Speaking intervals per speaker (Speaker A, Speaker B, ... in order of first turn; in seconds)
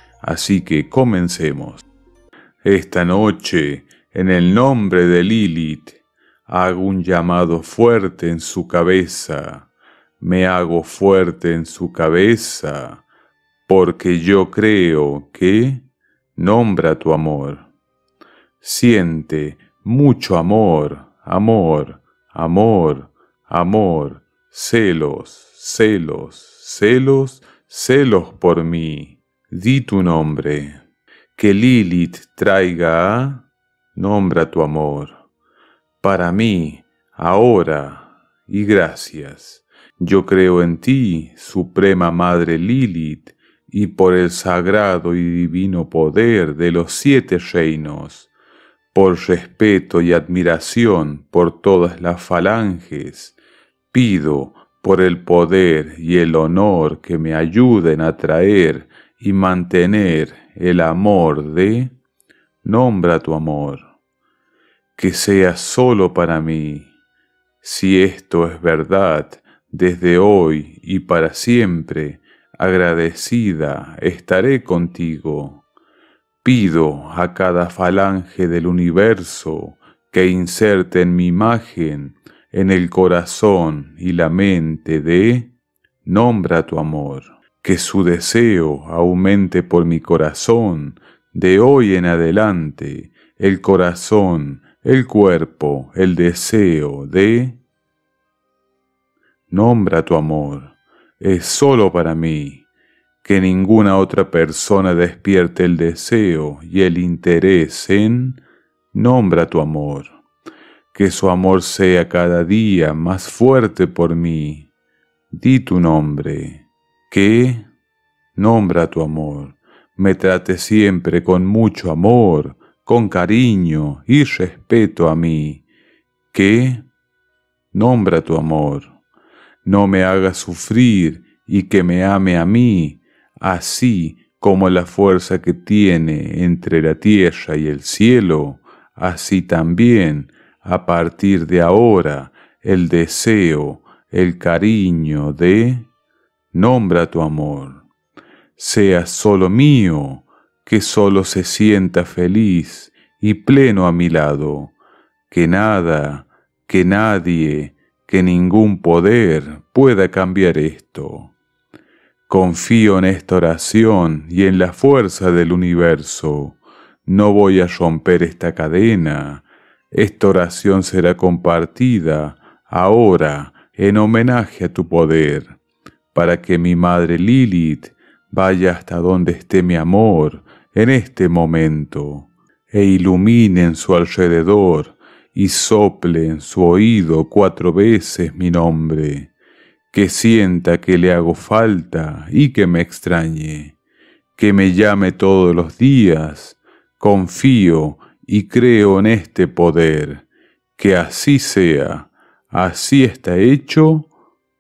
Speaker A: 0.2-1.8, 2.6-9.7, 10.2-13.0, 13.7-15.8, 16.4-17.7, 18.6-30.8, 31.3-35.2, 36.0-48.3, 48.9-53.3, 53.9-61.9, 62.6-63.9, 65.0-66.9, 67.6-75.6, 76.4-85.5, 86.0-97.6, 99.5-102.7, 103.2-108.4, 108.9-110.2, 110.9-114.7, 115.3-117.7, 118.3-125.6, 126.3-126.9, 127.7-128.9, 129.7-145.9, 146.5-147.8, 148.6-154.8, 155.3-161.3, 162.3-175.6, 176.1-189.3, 189.9-193.8, 194.3-200.2, 200.8-204.1